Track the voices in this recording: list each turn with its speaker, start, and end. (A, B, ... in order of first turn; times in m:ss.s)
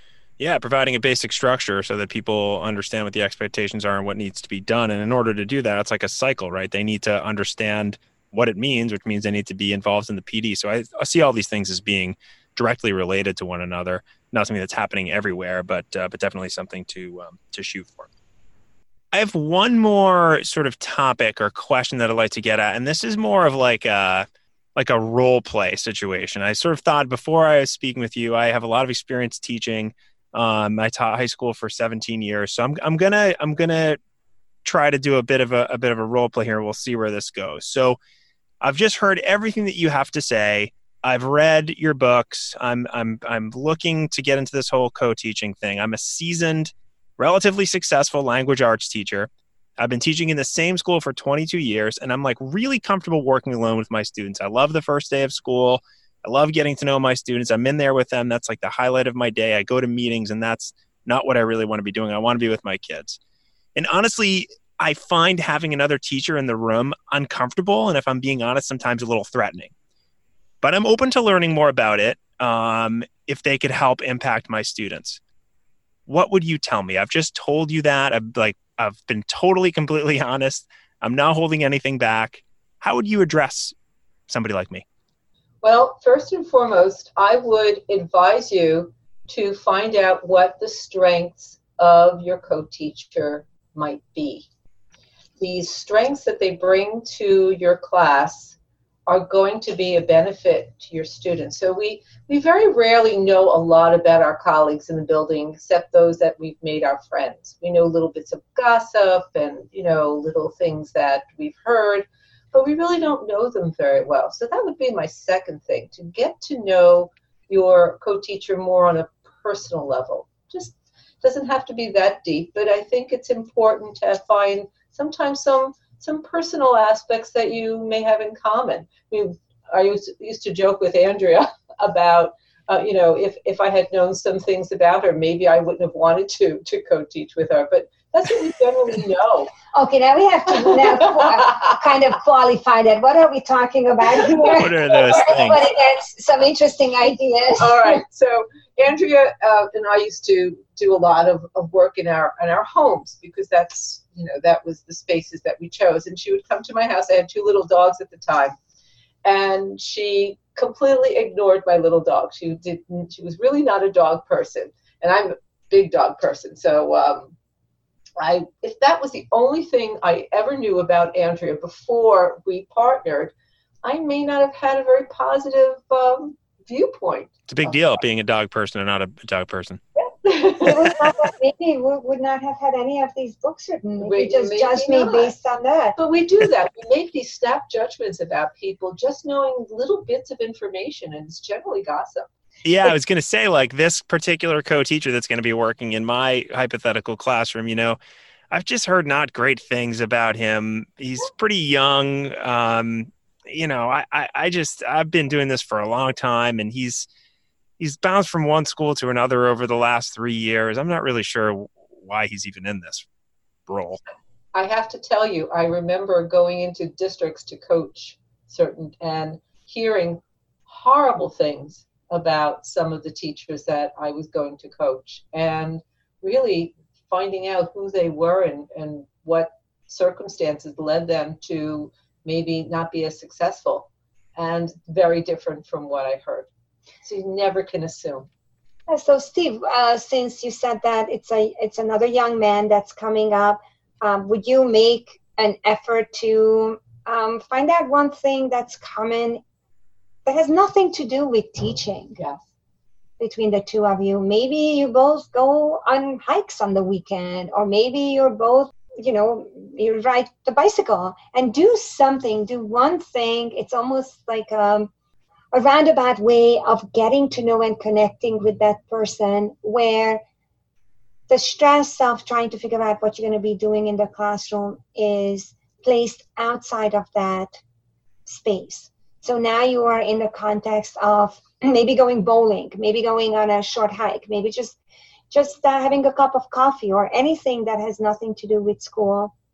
0:00.4-0:18.1 A
0:19.1-0:34.0 A
0:34.6-0:38.0 A
0:38.6-1:03.2 A
1:03.8-1:09.7 A
1:10.6-1:15.2 A
1:16.1-1:23.8 A
1:24.3-1:24.8 A
1:25.6-1:34.5 B
1:35.4-2:19.5 B
2:19.7-2:28.0 C
2:20.7-2:21.5 B
2:24.5-2:25.6 A
2:27.6-2:38.6 B
2:39.2-2:47.3 B
2:48.2-2:57.8 B
2:57.5-2:59.8 A
3:00.0-3:01.0 B
3:00.6-3:06.0 C
3:04.0-3:05.3 B
3:06.0-3:12.3 B
3:12.6-3:18.0 A
3:18.5-3:27.1 A
3:27.8-3:33.1 A
3:33.7-3:34.0 A
3:34.5-3:56.5 B
3:57.0-3:58.3 B
3:58.9-4:09.4 C
4:10.3-4:12.2 C
4:13.2-4:24.9 C
4:25.5-4:30.2 C
4:31.3-4:37.6 C
4:38.3-4:44.8 C
4:45.3-4:49.3 C